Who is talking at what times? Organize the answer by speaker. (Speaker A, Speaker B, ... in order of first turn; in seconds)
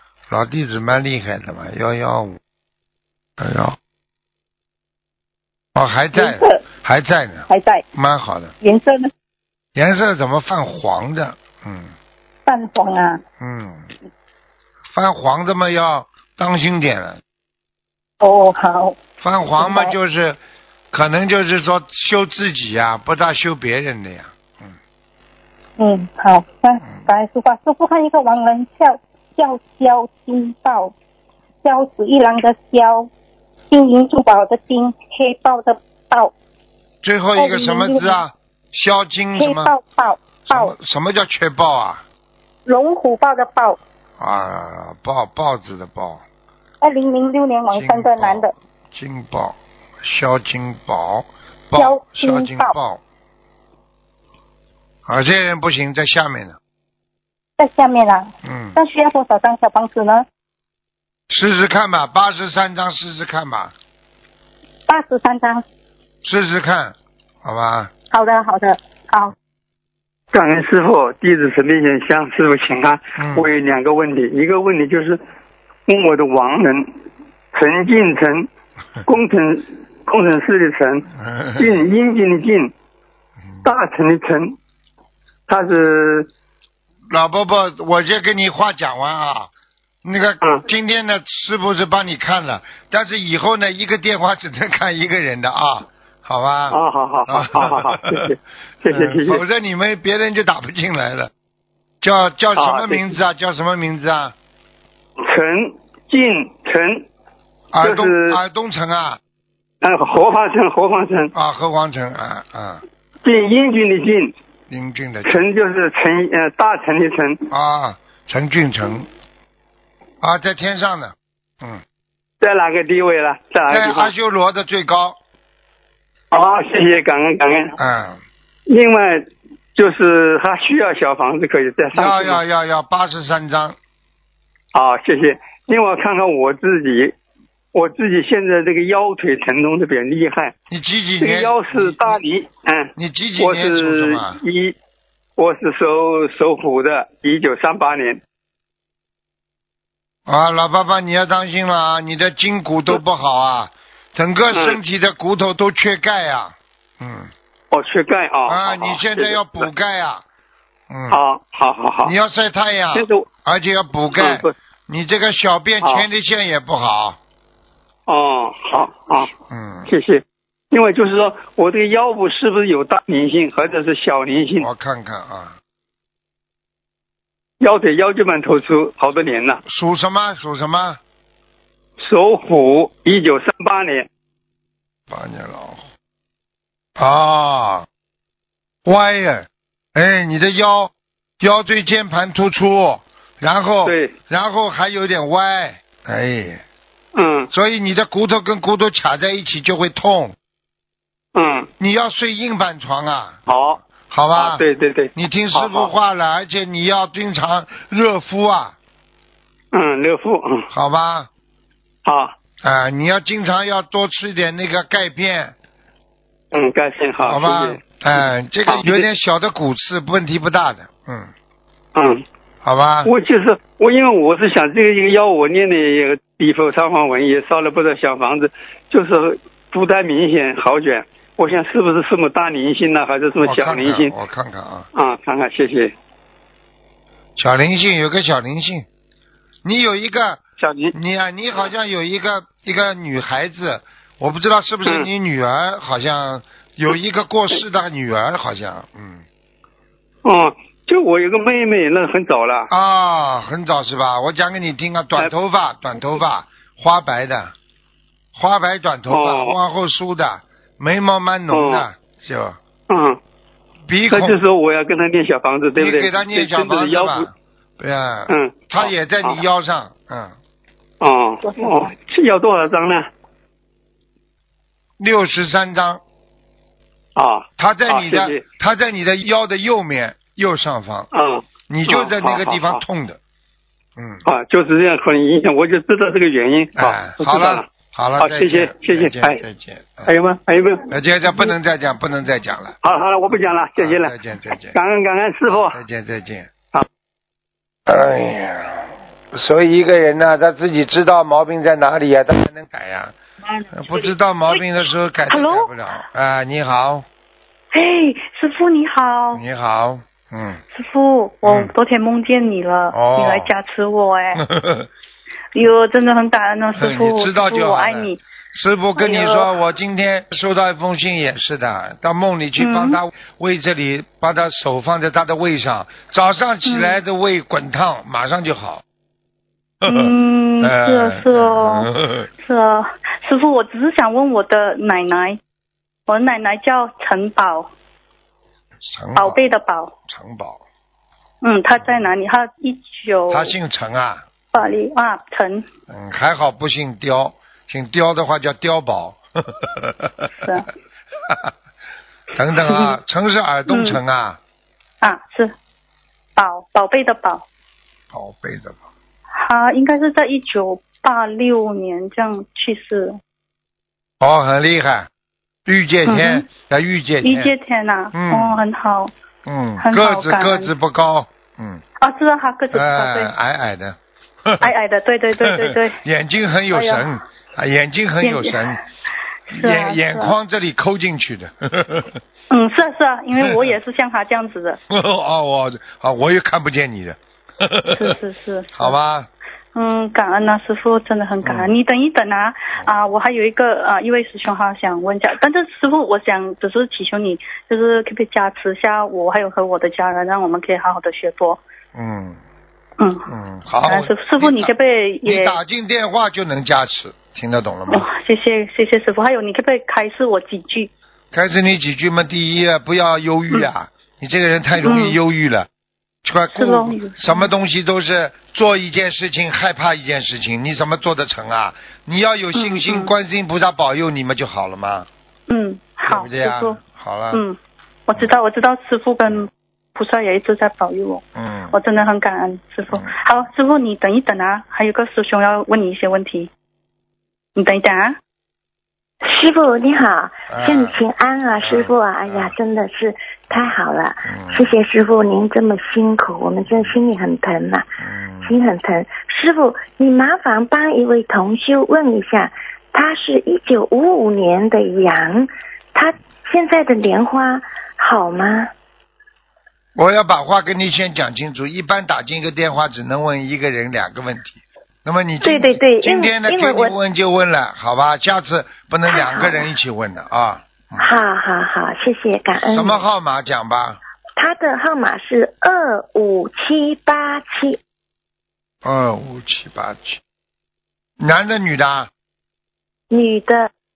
Speaker A: 0.3-2.4, 3.4-3.8, 5.7-8.5, 9.7-11.9, 13.4-13.9, 14.9-17.2, 19.2-20.4, 20.9-24.7, 37.0-39.7, 40.5-42.0, 44.2-46.2, 47.7-53.0, 55.0-56.6, 58.4-58.8, 61.3-63.7, 66.2-67.9, 73.2-73.5, 81.2-81.7, 87.1-89.5, 90.0-98.3, 98.8-101.3, 102.0-104.3, 107.7-109.2, 111.3-112.8, 114.7-115.4, 117.5-119.1, 120.2-121.8, 123.7-125.2, 127.8-128.2, 131.9-133.8, 140.7-142.2, 142.9-144.4, 150.2-157.3, 158.4-160.2, 160.9-161.2, 162.0-167.2, 169.4-169.9, 174.6-175.6, 179.7-181.0, 185.1-185.9, 187.0-187.9, 188.8-196.6, 197.5-200.3, 201.8-208.8, 210.7-211.3, 212.6-215.5, 217.2-221.3, 222.6-223.1, 233.4-234.9, 237.3-238.8, 239.6-240.4, 240.9-249.2, 252.7-257.5, 258.3-262.6, 263.9-264.4, 265.8-270.4, 275.0-276.0, 277.6-281.1, 281.7-283.2, 284.0-284.2, 286.8-290.1, 290.9-294.8, 295.5-296.5, 297.9-303.1, 303.7-307.1, 309.3-310.6, 311.4-311.7, 312.9-313.5, 314.4-314.9, 316.8-328.8, 329.8-332.3, 338.8-339.4, 340.1-340.6, 343.3-344.6, 345.9-350.3, 352.3-354.4, 358.1-358.8, 364.2-365.1, 365.6-367.5, 368.1-368.6, 369.4-371.8, 372.7-374.7, 375.4-378.8, 379.5-382.2, 384.9-388.1, 388.8-389.3, 391.4-391.7, 401.9-402.4, 403.3-404.7, 405.2-408.1, 411.3-415.7, 416.2-425.1, 426.0-427.4, 431.4-431.8, 440.5-441.0, 441.6-442.5, 443.5-444.7, 448.0-448.6, 459.9-471.1, 472.7-474.0, 478.8-480.2, 481.2-482.1
Speaker B: 6.1-6.6, 7.5-7.8, 8.6-9.1, 12.4-13.2, 18.2-19.0, 19.6-19.9, 25.8-30.9, 31.6-33.1, 33.7-36.3, 37.4-38.2, 39.4-40.7, 42.6-43.8, 46.8-48.5, 51.8-52.7, 57.6-60.2, 64.9-65.6, 68.1-69.3
Speaker C: 70.3-75.2, 75.9-76.9, 77.5-78.5, 79.0-82.7, 83.6-84.5, 85.5-86.3, 96.7-99.4, 102.5-103.0, 105.2-107.1, 107.8-108.4, 109.8-111.3, 113.2-114.3, 115.2-117.4, 122.4-124.1, 126.3-127.8, 128.7-132.4, 134.7-137.2, 137.7-140.5, 141.2-144.8, 145.4-148.2, 154.5-154.8, 157.7-159.6, 161.1-162.1, 162.9-163.3, 164.1-164.5, 165.8-166.1, 168.1-169.3, 169.9-174.7, 177.6-179.6, 182.0-184.1, 193.8-194.1, 197.1-197.5, 201.3-201.7, 203.5-203.8, 204.3-205.9, 209.7-210.7, 212.0-212.3, 216.5-217.8, 218.7-219.0, 221.9-222.2, 223.0-234.1, 234.9-235.9, 240.6-240.9, 250.2-252.7, 259.1-259.6, 261.5-261.9, 262.9-263.2, 264.1-267.3, 268.3-269.4, 271.0-273.1, 277.1-278.4, 281.1-282.8, 284.2-289.4, 290.1-290.9, 292.8-294.1, 294.7-295.8
Speaker D: 305.3-305.7, 307.7-309.4, 310.7-314.4, 315.5-318.2, 318.9-319.5, 322.6-323.0, 326.6-327.0, 329.9-335.4, 336.1-337.7, 339.1-339.9, 341.4-343.5, 344.5-345.6, 350.4-350.7, 352.6-352.9, 353.7-354.0, 355.0-355.5, 356.4-357.4, 359.4-363.2, 366.1-366.5, 367.2-369.1, 369.8-370.7, 372.0-373.3, 374.6-376.0, 376.7-377.1, 378.2-378.7, 379.5-380.3, 382.5-384.8, 387.9-388.9, 389.7-401.6, 403.0-403.3, 403.8-405.6, 407.9-410.9, 414.8-415.2, 416.5-417.5, 422.5-423.1, 425.5-426.8, 427.3-427.6, 428.1-436.5, 437.6-438.2
Speaker E: 439.2-447.9, 448.4-458.7, 465.4-467.0, 469.1-469.7, 471.0-473.0, 474.4-477.8, 483.1-483.7